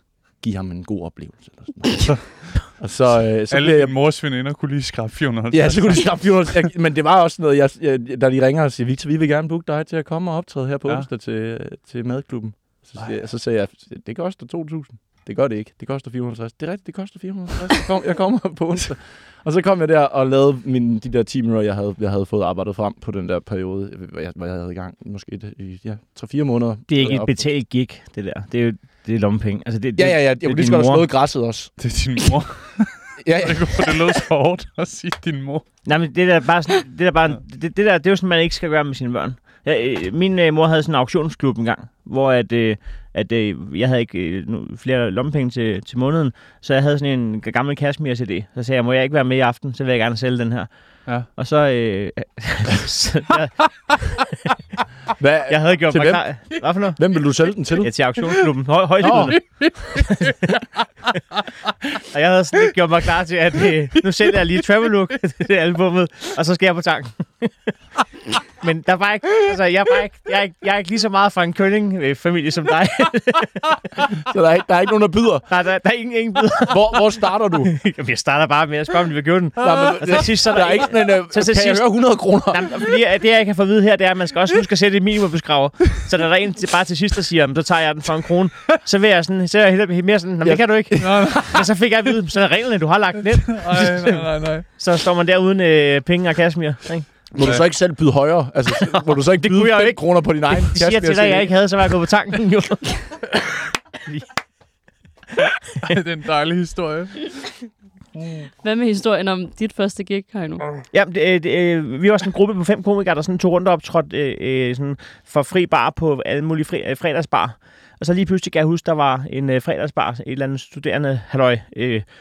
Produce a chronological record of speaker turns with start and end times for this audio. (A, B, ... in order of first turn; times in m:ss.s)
0:00.4-0:03.9 A
0:02.0-0:02.8 B
0:03.5-0:06.5 B
0:05.5-0:27.5 A
0:26.9-0:31.1 C
0:30.0-0:31.7 A
0:31.8-0:35.6 B
0:33.2-0:33.9 A
0:35.8-0:54.5 C
0:55.2-0:57.9 A
0:55.5-1:00.5 C
0:59.0-0:59.3 A
0:59.1-1:00.5 B
1:02.0-1:07.7 C
1:08.5-1:13.9 C
1:14.2-1:15.4 A
1:15.5-1:37.2 C
1:16.7-1:17.7 A
1:19.6-1:22.8 A
1:30.4-1:31.3 A
1:31.0-1:31.6 B
1:33.5-1:34.6 B
1:37.3-1:41.5 A
1:38.7-1:43.4 C
1:45.8-1:48.5 B
1:48.6-1:50.6 D
1:50.9-2:02.0 C